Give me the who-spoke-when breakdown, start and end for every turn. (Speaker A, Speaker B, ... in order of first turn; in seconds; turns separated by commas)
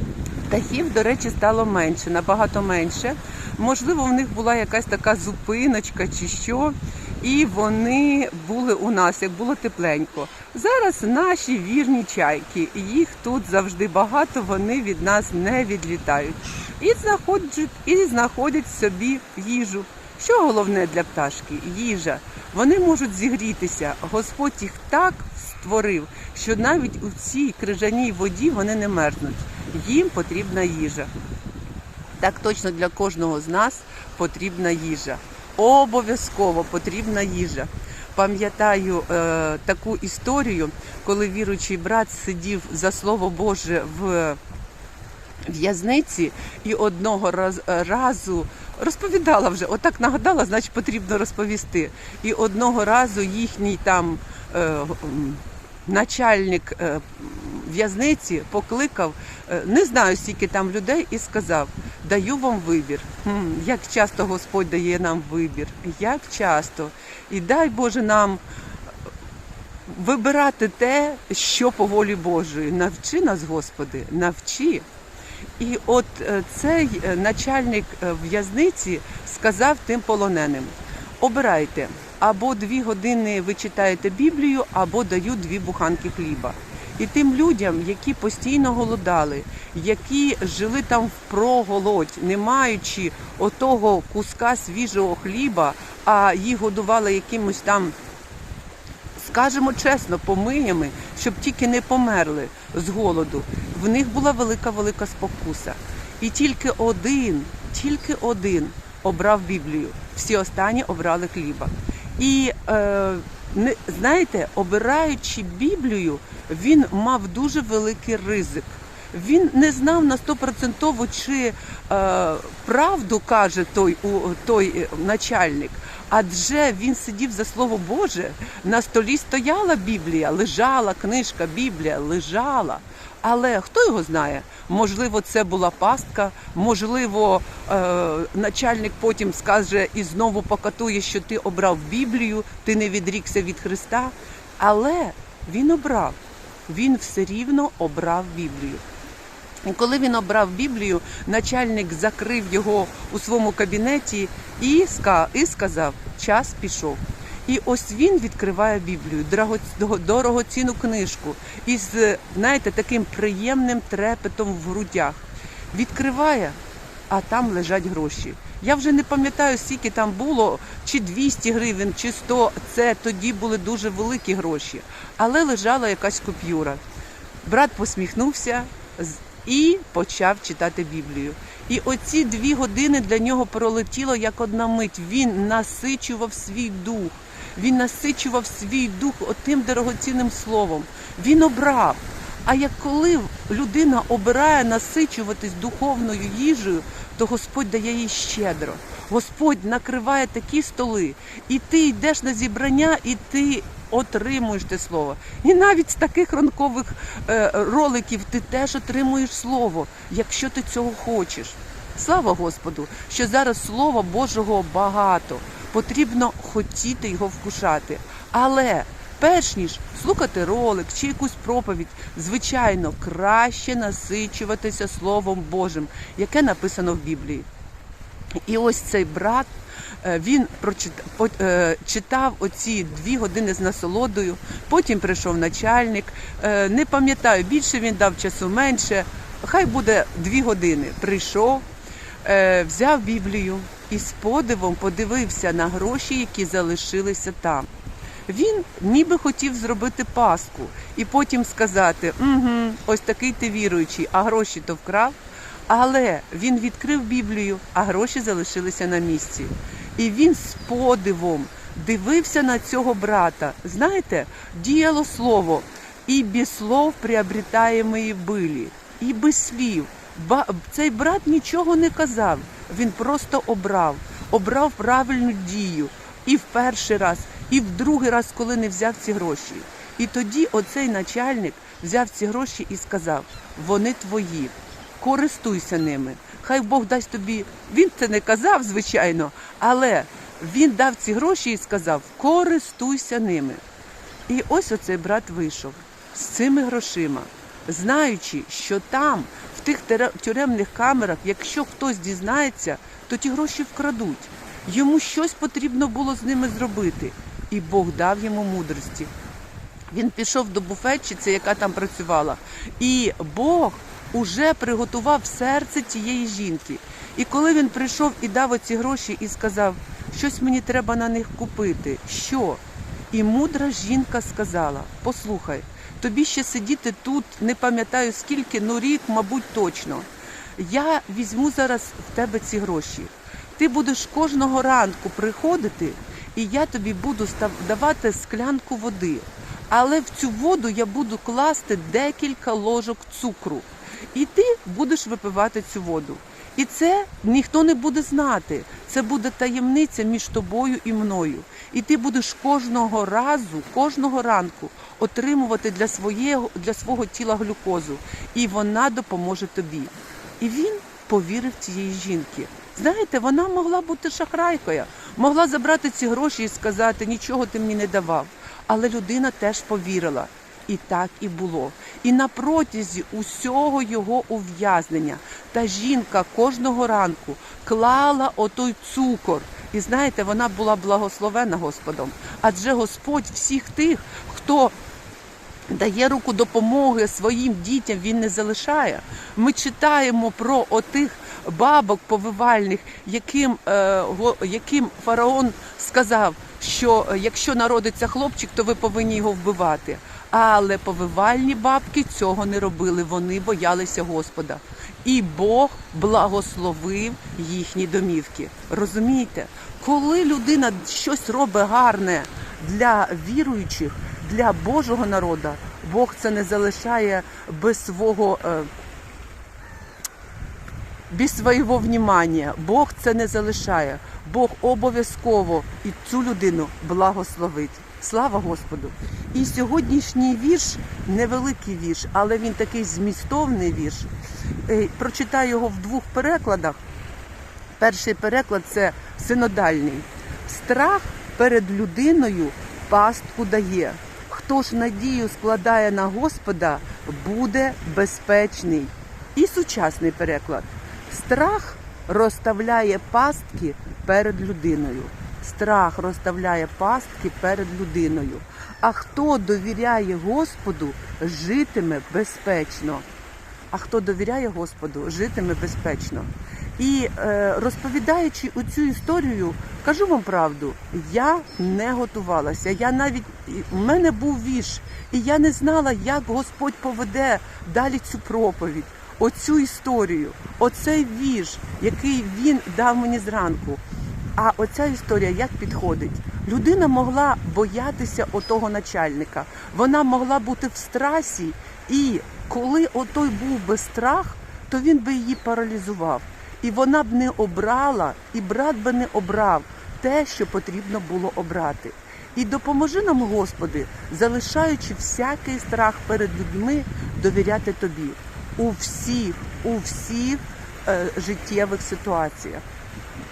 Speaker A: 0.5-31.1, Speaker A: 32.2-44.4, Speaker A: 45.4-68.4, Speaker A: 69.9-74.8, Speaker A: 75.6-98.0, Speaker A: 99.2-148.8, Speaker A: 149.7-166.6, Speaker A: 167.1-176.8, Speaker A: 177.4-227.5, Speaker A: 228.4-229.5, Speaker A: 230.0-241.7, Speaker A: 242.2-247.7, Speaker A: 248.3-255.2, Speaker A: 255.7-293.6, Speaker A: 294.3-309.1, Speaker A: 309.9-384.7, Speaker A: 385.7-418.7, Speaker A: 421.1-434.1, Speaker A: 434.7-436.8, Speaker A: 437.8-463.0, Speaker A: 463.7-483.8, Speaker A: 484.4-512.6